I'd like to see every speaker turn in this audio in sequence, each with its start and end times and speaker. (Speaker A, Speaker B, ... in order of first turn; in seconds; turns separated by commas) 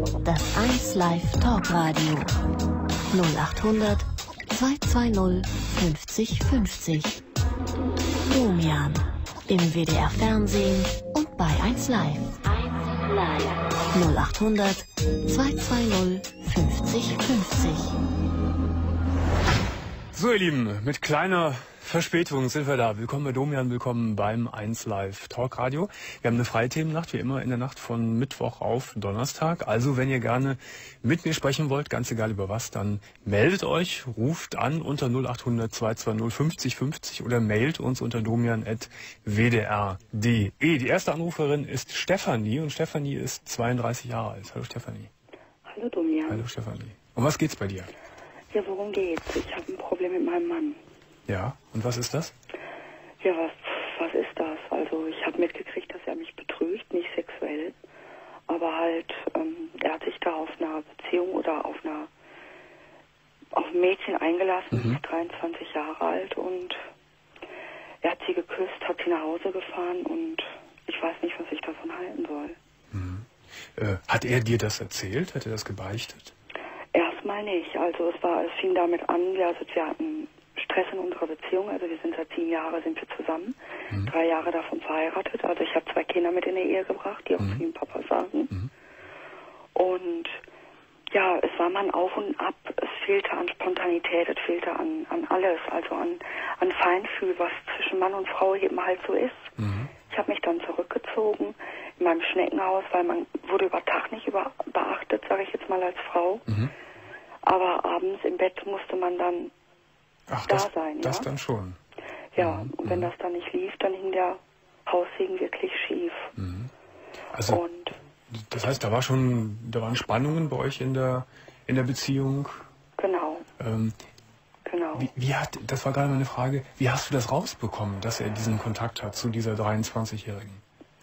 Speaker A: 0.2-2.3, Speaker A: 3.1-7.2, Speaker A: 8.3-18.0, Speaker B: 20.1-45.1, Speaker C: 45.7-46.5, Speaker B: 46.3-47.9, Speaker C: 48.5-50.8, Speaker B: 51.3-52.3, Speaker C: 53.2-57.8, Speaker C: 58.5-62.1, Speaker C: 63.5-66.8, Speaker B: 64.7-65.0, Speaker C: 68.0-72.6, Speaker B: 72.9-76.3, Speaker C: 76.9-88.5, Speaker B: 87.4-87.6, Speaker C: 89.8-90.4, Speaker C: 91.1-99.5, Speaker B: 99.6-99.9, Speaker C: 100.1-106.5, Speaker B: 106.5-106.7, Speaker C: 107.4-109.5, Speaker B: 110.3-111.8, Speaker C: 110.5-111.3, Speaker C: 112.3-116.3, Speaker B: 112.4-113.1, Speaker B: 116.4-116.7, Speaker B: 117.3-117.6, Speaker C: 117.5-118.0, Speaker B: 118.3-122.7, Speaker C: 123.0-123.5, Speaker B: 123.6-124.0, Speaker C: 124.7-125.1, Speaker B: 124.9-130.6